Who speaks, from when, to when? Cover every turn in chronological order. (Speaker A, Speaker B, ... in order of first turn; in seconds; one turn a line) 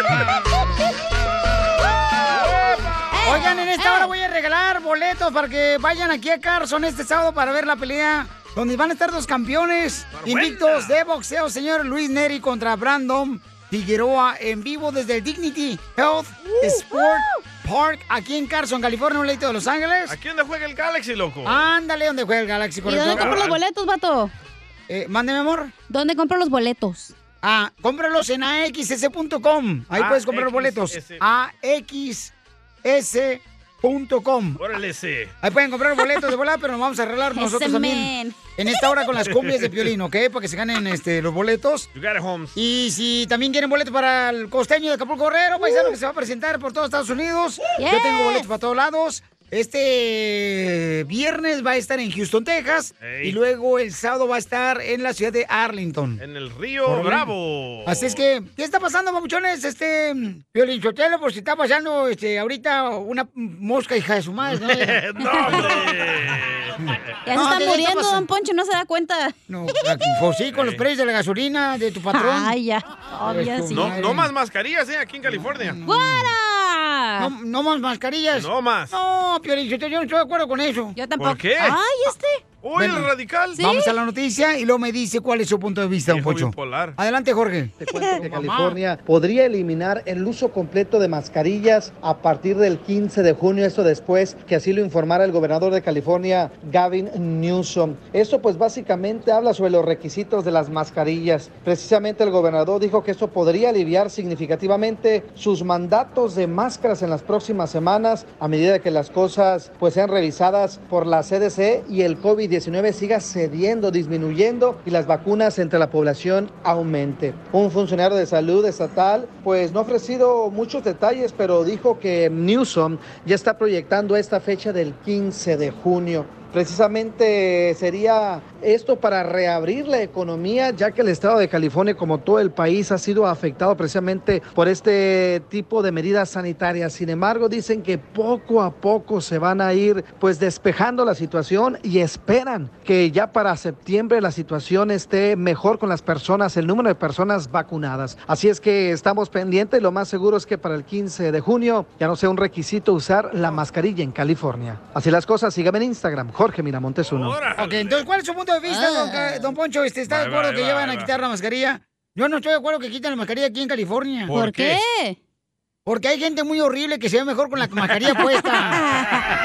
Speaker A: 2.3-3.4
Speaker B: 3.1-4.1
Speaker C: 3.2-20.2
Speaker A: 10.1-11.0
Speaker B: 16.6-17.4
Speaker A: 20.1-21.7
Speaker C: 21.4-23.4
Speaker B: 22.9-24.3
Speaker A: 23.0-23.6
Speaker C: 24.9-25.7
Speaker B: 25.9-27.1
Speaker C: 27.4-32.3
Speaker A: 29.9-31.2
Speaker C: 32.8-34.6
Speaker A: 34.6-35.3
Speaker C: 35.4-41.9
Speaker B: 37.4-38.4
Speaker A: 39.2-39.9
Speaker A: 41.9-42.5
Speaker C: 42.5-56.2
Speaker B: 47.8-48.5
Speaker A: 53.0-53.4
Speaker A: 56.2-58.2
Speaker C: 56.9-57.3
Speaker C: 57.9-65.8
Speaker A: 64.5-66.8
Speaker B: 65.2-65.9
Speaker B: 67.3-69.3
Speaker C: 67.3-68.3
Speaker C: 69.5-72.6
Speaker A: 70.5-70.8
Speaker B: 72.1-74.0
Speaker C: 73.2-74.3
Speaker A: 73.7-75.8
Speaker C: 75.3-76.3
Speaker B: 75.8-77.3
Speaker C: 77.2-81.0
Speaker A: 78.3-78.9
Speaker B: 81.0-82.4
Speaker A: 81.2-81.8
Speaker A: 82.6-83.6
Speaker C: 82.8-88.8
Speaker B: 83.5-83.9
Speaker A: 86.1-87.0
Speaker D: 87.8-157.4
Speaker B: 87.8-88.1
Speaker A: 157.0-158.0
Speaker C: 157.6-164.3
Speaker B: 158.7-159.5
Speaker A: 160.1-161.1
Speaker A: 164.3-164.8
Speaker B: 164.3-165.2
Speaker C: 165.9-168.8
Speaker B: 168.7-169.2